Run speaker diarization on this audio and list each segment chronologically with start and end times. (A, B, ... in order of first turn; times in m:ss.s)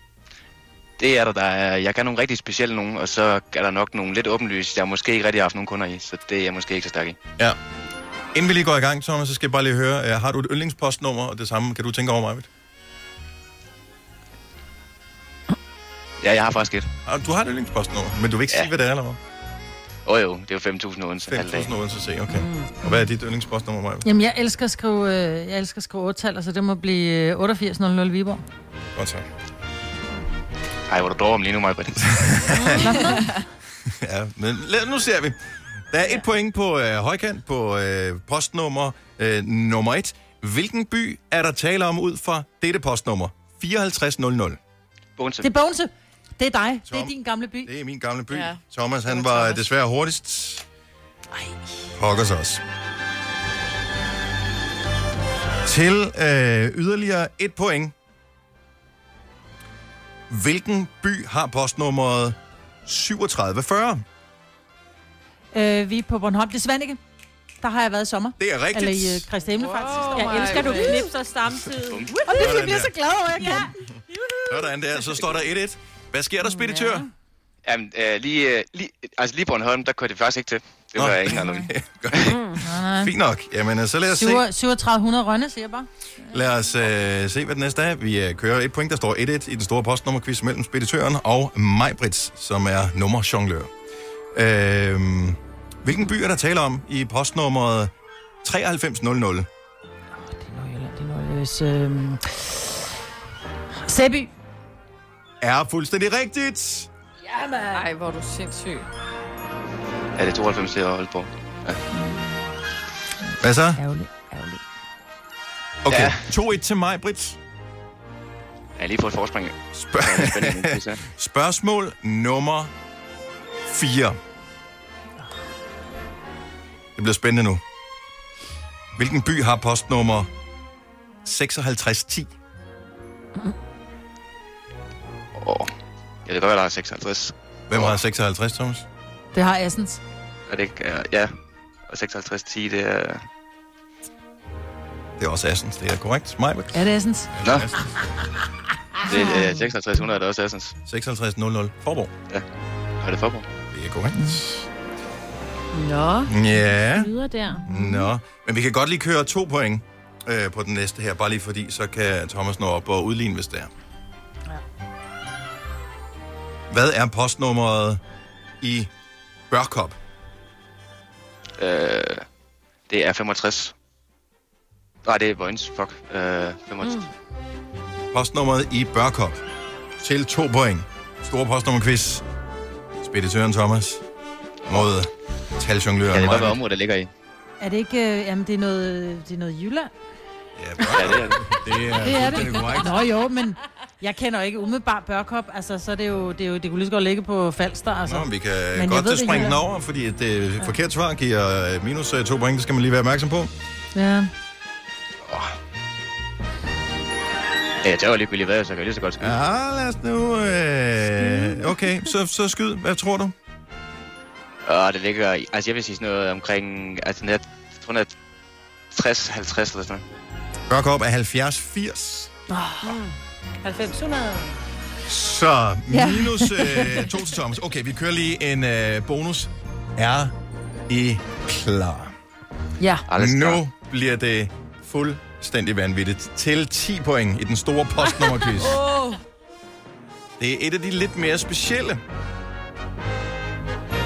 0:01.0-0:07.2 A
0:08.3-0:12.5 B
0:16.2-0:16.9 A
0:17.1-0:19.2 B
0:20.1-0:21.7 A
0:21.3-0:24.1 B
0:24.0-0:28.4 C
0:29.0-0:29.3 B
0:30.9-0:32.5 A
0:32.1-0:33.1 B
0:32.6-0:33.3 C
0:32.9-0:33.1 D
0:33.9-0:35.4 B
0:35.9-0:44.6 B
0:45.2-0:45.5 A
0:45.4-0:47.7 C
0:46.9-0:50.6 B
0:48.3-0:49.6 D
0:52.0-0:52.6 B
0:55.6-0:57.9 B
1:00.3-1:04.0 B
1:05.5-1:07.0 C
1:07.6-1:13.7 C
1:08.4-1:09.3 B
1:09.6-1:11.1 D
1:11.9-1:12.2 A
1:12.3-1:12.9 B
1:14.3-1:17.1 B
1:17.6-1:22.4 A
1:21.0-1:24.4 B
1:22.6-1:23.1 C
1:24.1-1:25.9 C
1:26.3-1:33.7 B
1:34.3-1:37.9 B
1:38.4-1:39.5 B
1:40.2-1:42.8 C
1:43.8-1:44.3 C
1:45.4-1:46.9 B
1:47.3-1:47.9 C
1:47.7-1:48.9 D
1:50.2-1:51.8 A
1:51.9-1:52.5 C
1:53.3-1:54.6 C
1:53.4-1:53.8 B
1:55.8-1:57.4 B
1:55.9-1:56.3 A
1:58.8-2:01.0 A
1:59.8-2:02.7 B
2:03.7-2:04.2 B
2:07.0-2:07.6 B
2:09.0-2:10.3 B
2:11.2-2:12.3 B
2:15.4-2:15.7 A
2:16.3-2:18.0 A
2:17.7-2:18.8 B
2:19.3-2:20.0 C
2:20.5-2:21.3 A
2:21.9-2:23.3 A
2:25.2-2:27.9 B
2:26.7-2:27.3 C
2:27.4-2:27.7 A
2:29.0-2:29.5 C
2:29.0-2:30.8 A
2:30.9-2:32.1 B
2:33.0-2:33.5 A
2:33.7-2:34.6 B
2:35.7-2:36.3 D
2:36.3-2:43.7 B
2:37.0-2:38.1 C
2:46.7-2:48.0 B
2:48.6-2:48.9 B
2:49.5-2:50.0 B
2:51.6-2:52.2 A
2:52.9-2:53.7 A
2:55.0-2:57.1 A
2:58.1-2:59.4 B
3:00.0-3:02.2 B
3:03.0-3:04.0 B
3:04.7-3:06.6 B
3:06.1-3:07.1 A
3:07.6-3:09.9 C
3:10.6-3:13.0 B
3:10.9-3:11.5 A
3:11.9-3:19.6 C
3:18.1-3:23.5 B
3:23.9-3:24.3 C
3:27.8-3:29.4 A
3:29.2-3:33.3 B
3:31.2-3:31.7 C
3:34.6-3:38.1 A
3:38.9-3:40.0 A
3:40.7-3:42.3 B
3:42.5-3:43.0 C
3:43.6-3:44.5 C
3:45.1-3:50.3 B
3:45.9-3:47.1 C
3:50.9-3:52.1 B
3:52.8-3:53.0 C
3:53.1-3:53.6 A
3:53.1-3:58.8 B
3:58.6-3:59.2 D
4:00.4-4:02.0 B